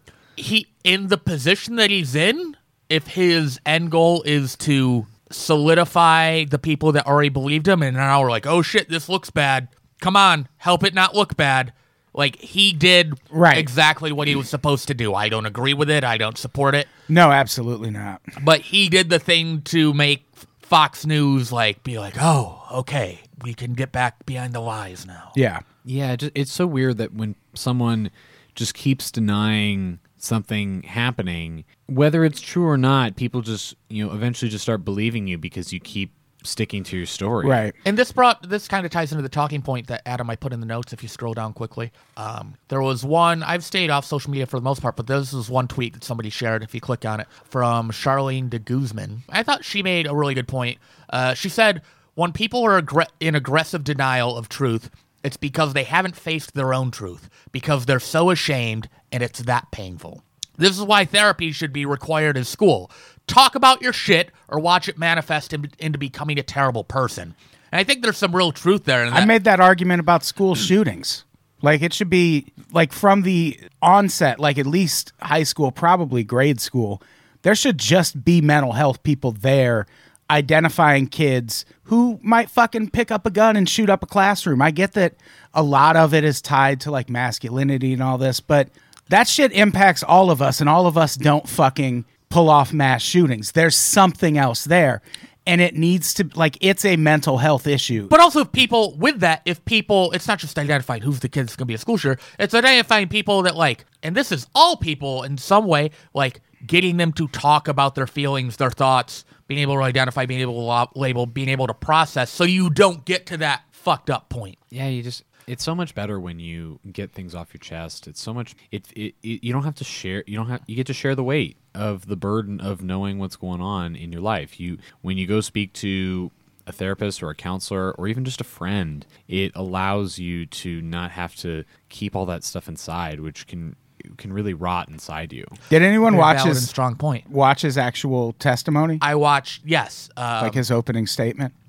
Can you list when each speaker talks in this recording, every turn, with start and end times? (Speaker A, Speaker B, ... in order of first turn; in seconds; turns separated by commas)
Speaker A: 0.4-16.9, Speaker B: 13.3-13.7, Speaker B: 17.1-18.2, Speaker A: 18.4-25.4, Speaker B: 25.4-25.6, Speaker C: 25.9-37.6, Speaker B: 37.4-37.8, Speaker A: 37.9-69.3, Speaker B: 69.1-98.1, Speaker A: 98.1-114.6, Speaker C: 114.7-135.6, Speaker B: 135.7-136.7, Speaker A: 136.1-137.2, Speaker B: 137.3-139.0, Speaker A: 139.0-140.6, Speaker B: 140.4-141.5